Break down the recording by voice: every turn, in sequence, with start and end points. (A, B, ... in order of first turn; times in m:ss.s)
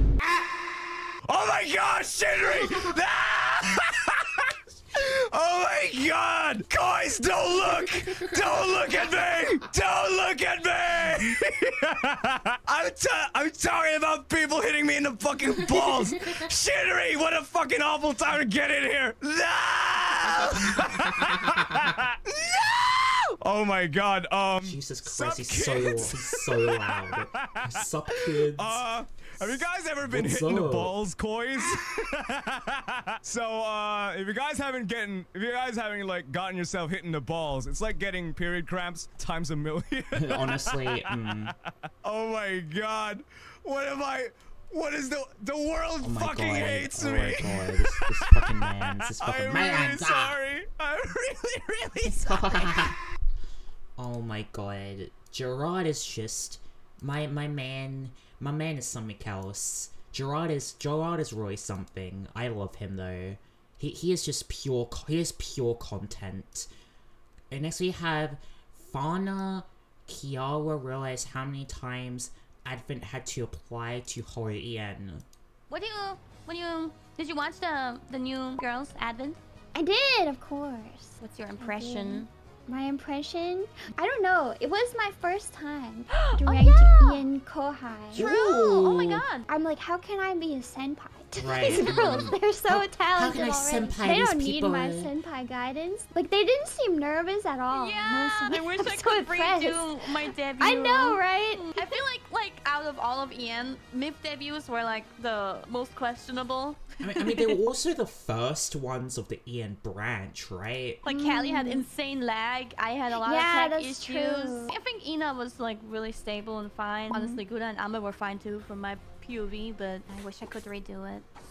0:01.3-0:27.7 A
0:20.3-0:21.9 B
0:24.6-0:28.8 B
0:28.5-0:41.5 A
0:29.4-0:30.9 B
0:40.2-0:41.5 B
0:42.0-0:52.9 A
0:46.0-0:50.4 B
0:52.1-0:53.0 B
0:54.0-1:06.7 B
1:07.5-1:15.2 B
1:15.7-1:19.4 C
1:19.7-1:28.3 D
1:21.2-1:22.3 C
1:26.1-1:27.3 C
1:28.1-1:29.2 B
1:28.1-1:29.5 C
1:29.5-1:42.0 D
1:31.4-1:35.1 B
1:37.7-1:46.8 C
1:47.0-1:51.0 B
1:51.0-2:01.2 C
1:51.0-1:51.8 D
1:53.1-1:54.7 D
1:57.1-1:57.4 D